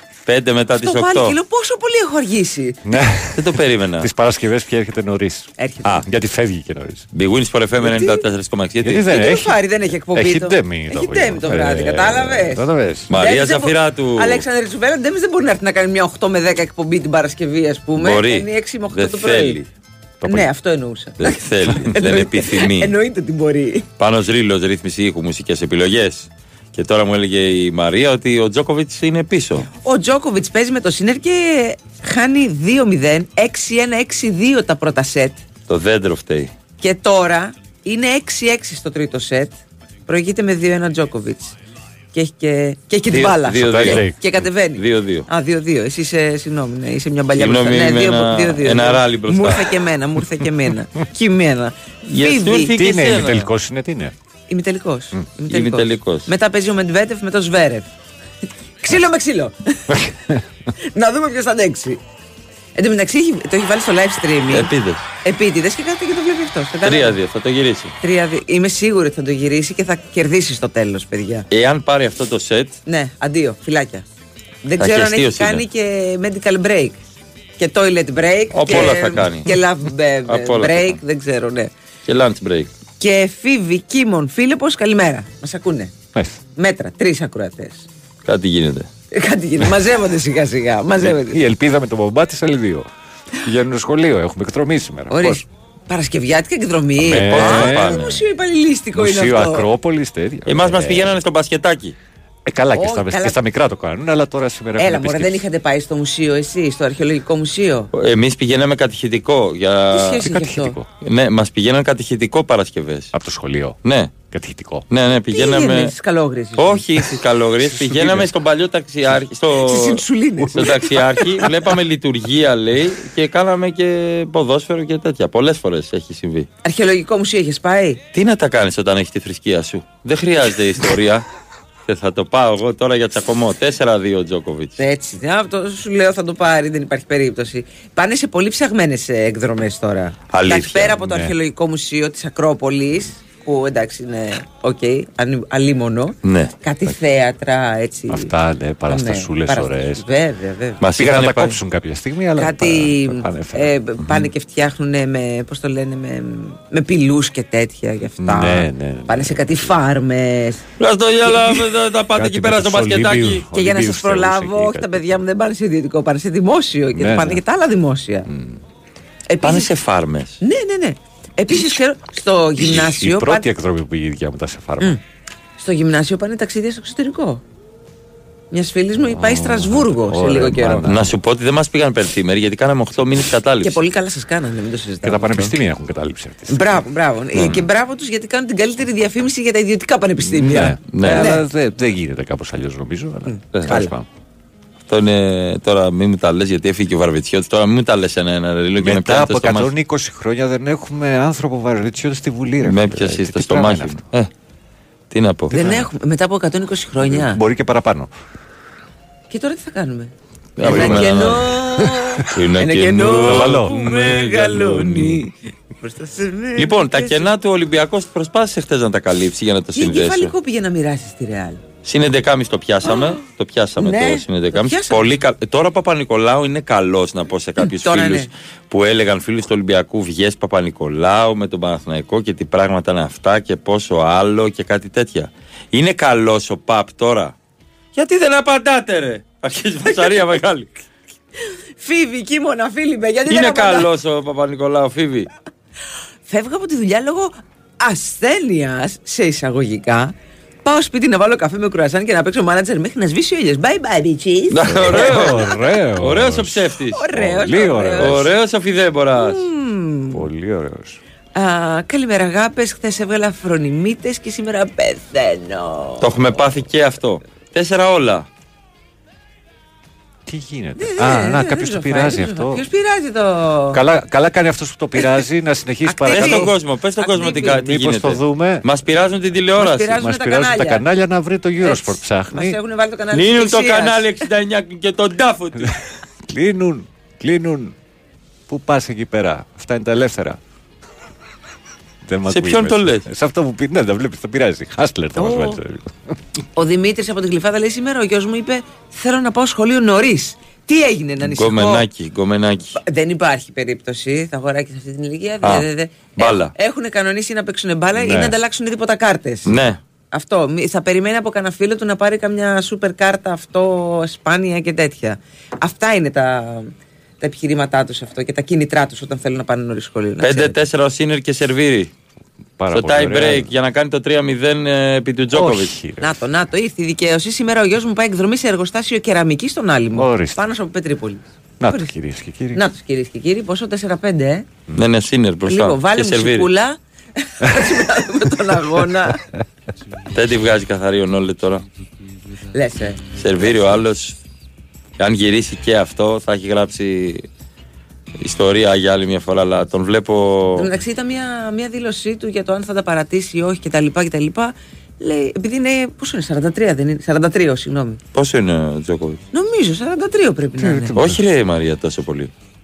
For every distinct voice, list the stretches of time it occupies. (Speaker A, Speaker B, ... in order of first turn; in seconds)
Speaker A: 0.3-1.4, 3.4-4.1, 7.1-9.1, 13.1-14.4, 18.0-19.7, 21.2-22.9, 24.0-29.7, 35.7-36.5, 43.1-44.0, 44.8-45.3, 47.4-49.7, 52.1-53.5, 55.5-56.3, 64.5-65.0, 66.8-67.9, 71.5-72.8, 74.8-75.6, 78.5-79.6, 80.3-81.0, 82.1-82.7, 88.3-88.9, 97.3-98.2, 100.5-102.0, 107.9-110.3, 111.0-113.1, 113.8-114.2, 114.9-115.9, 116.6-120.0, 120.6-126.5, 128.1-131.2, 131.9-134.8, 140.3-141.0, 146.2-146.5, 150.8-151.6, 160.8-163.4, 169.4-170.4, 180.8-183.8, 187.4-187.6, 190.9-191.3, 194.9-199.7, 202.6-204.3, 205.1-205.5, 210.6-211.6, 212.3-215.2, 216.6-220.3, 221.8-237.3, 237.9-240.8, 243.3-245.3, 254.5-255.4, 256.0-257.0, 258.0-259.4, 266.0-268.3, 276.1-279.9, 283.1-285.8, 292.3-293.1, 301.2-302.8, 306.2-306.5, 309.5-309.8, 320.2-321.9, 322.7-325.7, 334.8-336.5, 340.1-341.6, 343.2-344.2, 345.0-347.3, 348.2-350.7, 358.1-359.2, 361.0-362.3
Speaker B: 0.8-2.8, 5.6-6.0, 7.8-8.2, 9.1-19.6, 20.3-23.9, 29.7-35.4, 36.8-41.5, 42.1-52.8, 54.5-57.9, 58.8-59.8, 60.9-62.0, 62.8-64.7, 65.2-67.2, 68.0-71.5, 72.9-74.0, 74.7-77.0, 77.6-81.7, 83.0-85.9, 86.6-87.8, 89.1-91.4, 95.1-99.7, 102.7-103.4, 104.8-107.9, 109.9-110.8, 115.3-116.8, 119.6-121.5, 126.6-128.0, 134.8-148.3, 148.9-150.8, 152.4-160.6, 163.5-168.3, 169.3-169.7, 170.4-173.5, 175.6-177.4, 178.5-180.9, 183.6-185.6, 186.5-191.4, 193.3-193.9, 205.5-207.4, 209.3-217.2, 219.8-221.6, 222.8-223.1, 223.8-225.1, 227.6-228.3, 239.9-240.2, 241.8-243.9, 246.3-250.1, 250.6-255.6, 256.9-258.3, 259.2-260.2, 261.4-266.3, 270.8-273.8, 275.9-277.6, 279.6-280.9, 281.6-284.1, 295.2-295.6, 296.6-301.9, 302.8-309.5, 310.1-320.6, 326.0-331.9, 332.5-334.5, 335.5-339.2, 342.5-343.0, 350.6-358.0, 359.3-360.9
Speaker C: 2.9-7.1, 8.8-9.6, 10.1-13.1, 20.2-20.5, 43.6-44.4, 52.7-54.1, 59.9-60.4, 91.0-92.9, 93.4-95.4, 97.0-98.0, 98.9-101.2, 102.5-105.5, 110.2-110.9, 113.1-113.8, 114.3-114.9, 117.6-118.3, 141.0-141.3, 148.1-150.1, 151.0-153.8, 158.2-159.8, 162.2-165.2, 166.9-167.4, 168.3-168.6, 172.6-174.9, 179.1-181.1, 185.0-186.8, 190.3-194.1, 198.8-204.0, 205.5-205.9, 207.0-208.1, 210.6-212.2, 213.0-213.7, 254.7-258.3, 260.1-261.0, 270.3-272.6, 273.7-276.5, 277.6-278.6, 279.9-282.6, 286.3-287.8, 288.5-290.4, 292.1-295.9, 307.9-308.3, 322.6-323.5, 325.3-326.2, 329.9-330.4, 331.6-332.6, 360.6-361.2